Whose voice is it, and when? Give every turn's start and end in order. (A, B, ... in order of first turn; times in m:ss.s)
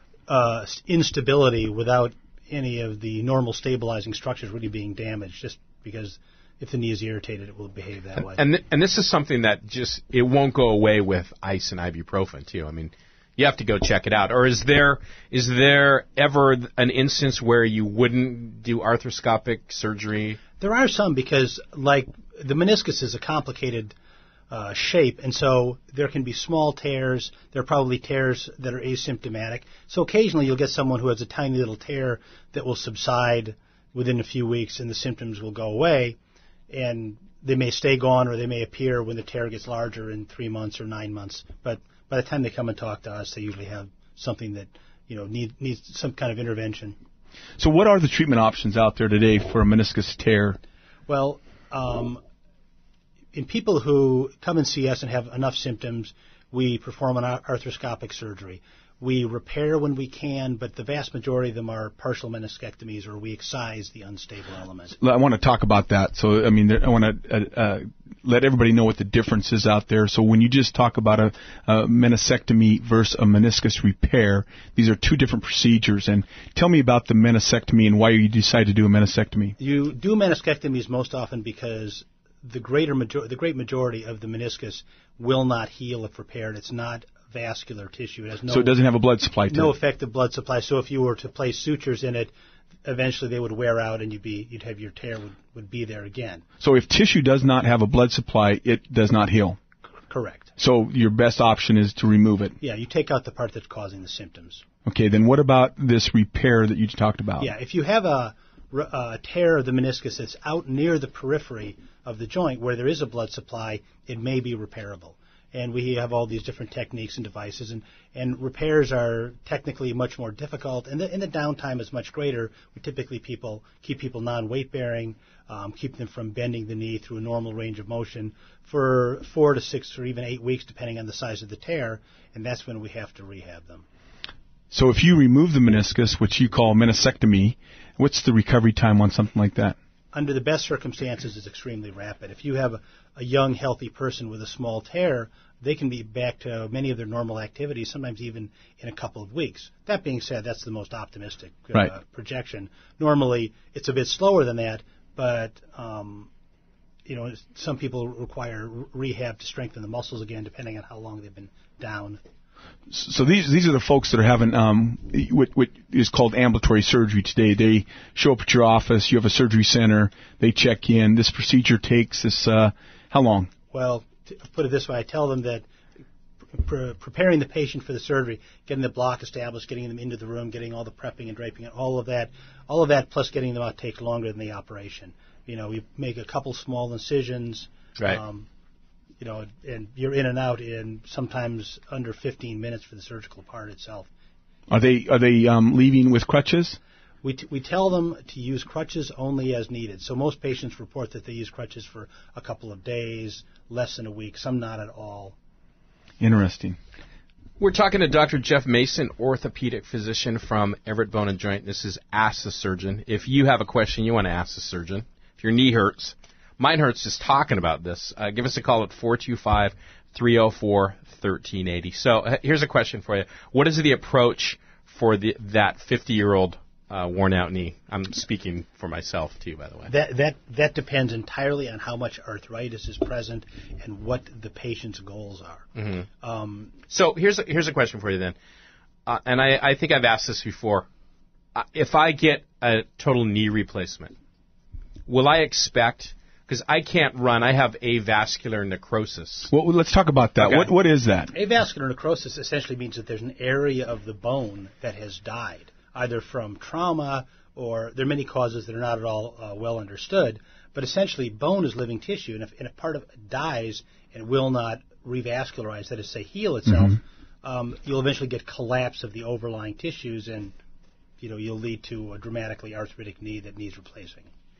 0:00.3-0:08.4 A
0:08.2-0:20.4 B
0:20.6-0:24.0 A
0:24.5-0:36.2 A
0:36.7-0:47.0 A
0:47.6-0:50.6 C
0:51.1-0:52.2 A
0:53.3-1:05.0 A
1:05.0-1:19.6 C
1:19.6-1:28.8 A
1:28.5-1:29.7 C
1:29.5-1:32.3 A
1:32.8-1:36.4 A
1:36.6-1:39.6 C
1:40.1-1:40.5 A
1:40.6-1:42.6 C
1:42.6-1:44.6 A
1:44.9-1:47.5 C
1:47.4-2:13.9 A
2:14.7-2:19.8 C
2:20.1-2:36.3 A
2:37.1-2:42.2 A
2:42.9-2:53.5 C
2:53.7-2:55.6 A
2:56.5-3:08.5 A
3:09.2-3:14.1 A
3:14.7-3:16.8 C
3:17.2-3:25.4 A
3:26.2-3:26.8 C
3:27.6-3:49.9 B
3:49.9-3:55.7 A
3:55.8-3:56.1 B
3:56.2-3:56.8 A
3:56.9-3:58.4 B
3:59.1-4:00.9 B
4:01.6-4:04.2 B
4:05.1-4:09.5 B
4:09.5-4:11.3 C
4:10.4-4:10.7 B
4:11.3-4:30.6 A
4:31.2-4:34.3 A